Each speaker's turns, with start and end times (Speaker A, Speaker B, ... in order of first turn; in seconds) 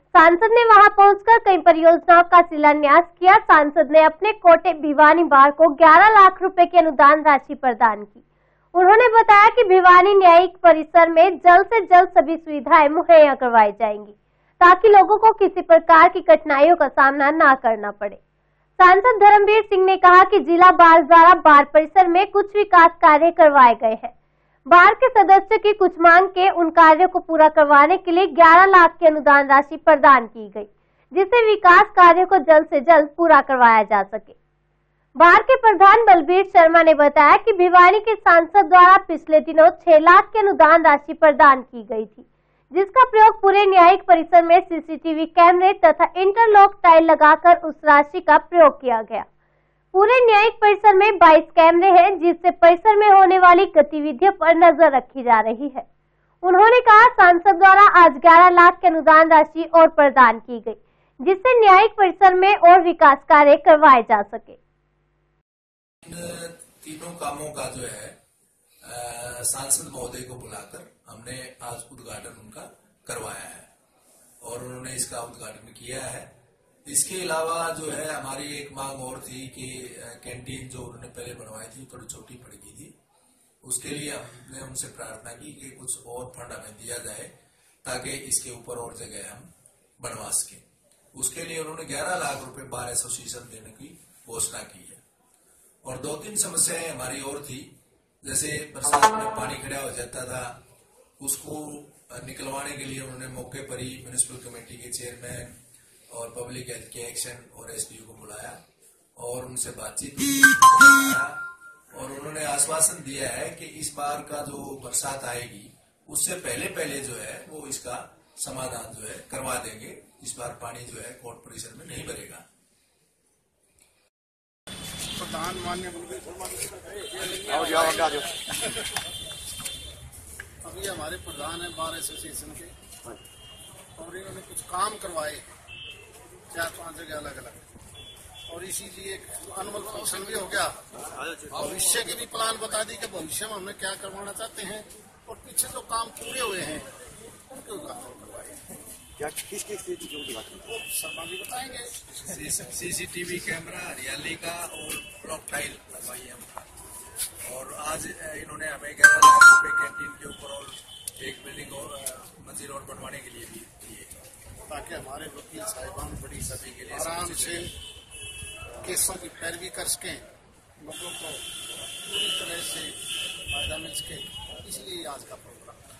Speaker A: 0.1-8.2, 8.7-18.2, 18.8-24.1, 24.7-34.4, 35.2-49.3, 49.9-55.9, 56.4-64.6
Speaker B: 66.0-68.2, 68.8-73.7, 74.4-76.3, 76.8-82.9, 83.6-87.3, 87.8-89.5, 90.0-90.6, 91.1-95.0, 95.8-97.7, 98.2-100.6, 101.2-105.5, 106.1-108.6, 109.2-111.4, 111.9-122.4, 152.2-156.5, 157.4-164.2, 166.4-167.7
Speaker C: 125.1-128.3, 130.6-132.7, 133.9-135.5, 136.5-137.7, 138.5-140.8, 141.5-146.9, 147.5-148.6, 150.6-152.0, 164.7-167.7, 168.8-170.2, 170.8-171.4, 172.0-172.9, 173.5-175.8
Speaker D: 127.5-128.3, 149.2-150.7